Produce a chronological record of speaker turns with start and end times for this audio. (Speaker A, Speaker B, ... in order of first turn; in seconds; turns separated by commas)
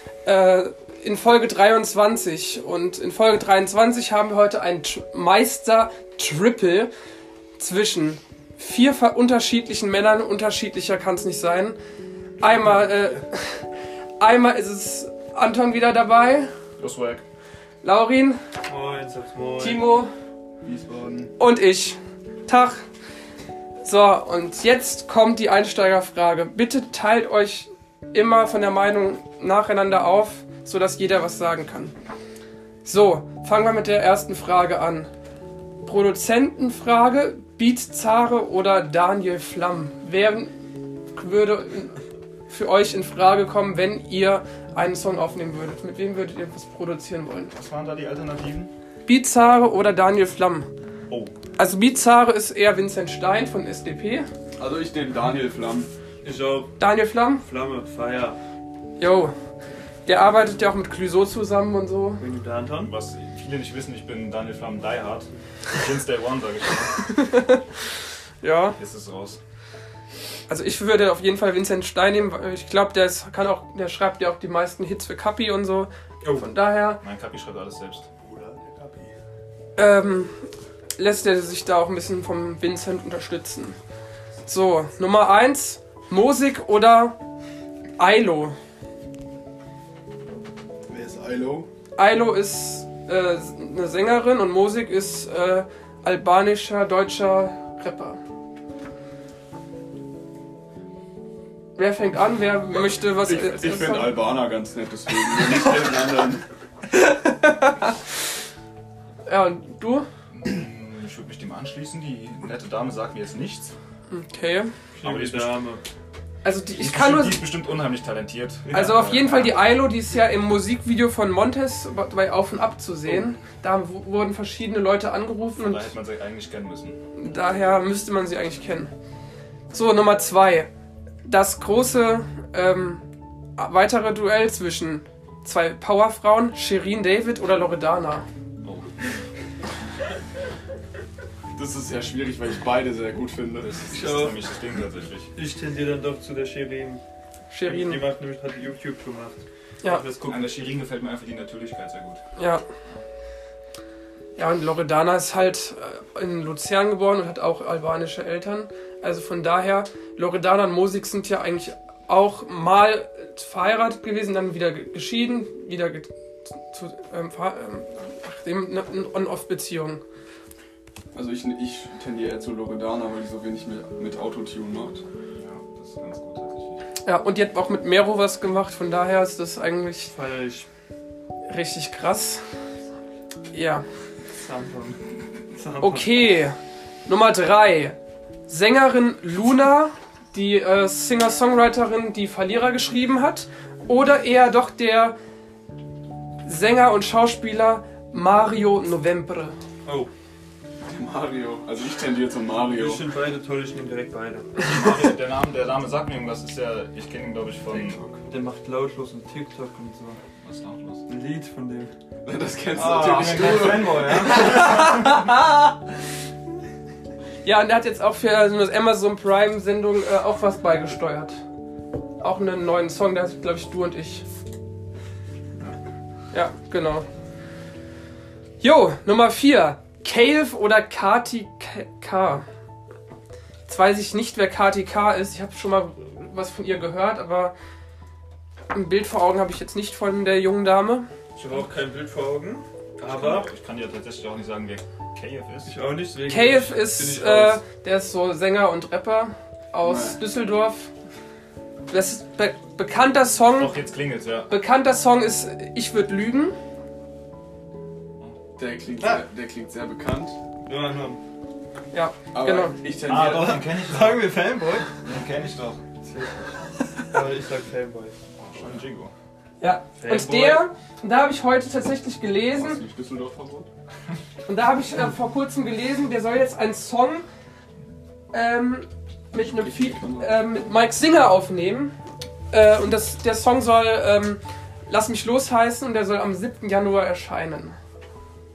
Speaker A: 0.2-6.9, Speaker A: 7.6-11.8, Speaker A: 12.4-13.6, Speaker A: 14.2-16.5, Speaker B: 16.8-17.2, Speaker A: 17.8-18.4, Speaker C: 18.7-19.8, Speaker A: 19.6-20.1, Speaker B: 20.7-21.3, Speaker D: 20.7-21.2, Speaker A: 21.4-22.8, Speaker A: 23.8-31.9, Speaker A: 32.8-35.1, Speaker A: 35.8-40.5, Speaker A: 41.1-47.5, Speaker B: 47.5-48.7, Speaker A: 49.0-50.7, Speaker B: 51.1-51.3, Speaker A: 51.6-54.3, Speaker D: 54.6-55.9, Speaker C: 56.2-56.8, Speaker A: 56.8-57.4, Speaker C: 57.4-58.4, Speaker A: 59.0-59.3, Speaker A: 60.0-62.2, Speaker C: 62.2-62.9, Speaker B: 62.8-67.0, Speaker A: 67.1-67.6, Speaker A: 68.4-68.8, Speaker B: 68.8-69.4, Speaker A: 70.5-77.0, Speaker C: 76.2-76.5, Speaker B: 77.0-78.1, Speaker D: 78.3-79.1, Speaker A: 79.8-83.8, Speaker A: 84.5-87.2, Speaker A: 88.0-88.5, Speaker D: 90.9-91.7, Speaker A: 92.0-98.2, Speaker A: 101.8-104.2, Speaker D: 103.2-106.4, Speaker A: 106.9-107.9, Speaker A: 109.2-110.0, Speaker B: 110.3-113.7, Speaker A: 114.1-114.7, Speaker C: 115.0-115.8, Speaker B: 115.0-115.6, Speaker A: 116.4-117.5, Speaker B: 116.8-119.5, Speaker A: 118.7-125.9, Speaker B: 125.6-127.0, Speaker A: 127.2-128.9, Speaker A: 129.7-130.7, Speaker A: 131.2-133.1, Speaker A: 133.6-138.2, Speaker B: 138.6-138.9, Speaker D: 141.5-144.0, Speaker B: 143.6-145.3, Speaker C: 143.9-144.4, Speaker C: 145.3-147.0, Speaker A: 147.5-148.1, Speaker C: 147.6-150.5, Speaker B: 150.2-152.2, Speaker A: 152.3-152.6, Speaker A: 154.3-166.1, Speaker A: 166.6-170.0, Speaker D: 171.1-175.0, Speaker B: 175.3-176.8, Speaker A: 177.0-180.1, Speaker C: 180.1-180.7, Speaker A: 181.5-182.4, Speaker A: 183.5-183.8, Speaker C: 184.3-185.0, Speaker C: 185.5-186.1, Speaker A: 185.8-188.0, Speaker A: 188.5-195.2, Speaker A: 196.4-199.5, Speaker C: 199.8-200.1, Speaker D: 200.8-203.0, Speaker C: 202.7-204.6, Speaker B: 204.6-208.1, Speaker D: 207.7-208.2, Speaker C: 208.3-210.2, Speaker B: 210.4-211.0, Speaker C: 211.1-211.9, Speaker D: 212.2-214.6, Speaker B: 212.7-215.2, Speaker A: 214.5-215.3, Speaker A: 217.4-221.3, Speaker A: 222.2-224.2, Speaker A: 226.3-227.1, Speaker A: 228.6-232.4, Speaker A: 233.7-237.5, Speaker A: 238.7-241.1, Speaker C: 241.3-243.5, Speaker B: 243.0-245.7, Speaker C: 245.7-247.6, Speaker A: 246.3-250.9, Speaker D: 249.8-250.2, Speaker A: 251.9-253.7, Speaker B: 253.6-254.5, Speaker A: 254.5-256.6, Speaker D: 258.6-260.4, Speaker C: 260.6-261.2, Speaker A: 261.9-262.8, Speaker D: 262.3-263.6, Speaker B: 263.0-264.5, Speaker C: 263.5-264.9, Speaker B: 265.0-265.8, Speaker C: 266.0-266.5, Speaker C: 267.1-268.1, Speaker B: 268.4-269.1, Speaker A: 269.6-272.8, Speaker C: 270.0-270.6, Speaker D: 272.6-273.7, Speaker A: 274.4-277.2, Speaker A: 278.3-281.9, Speaker D: 279.4-280.3, Speaker A: 282.5-287.8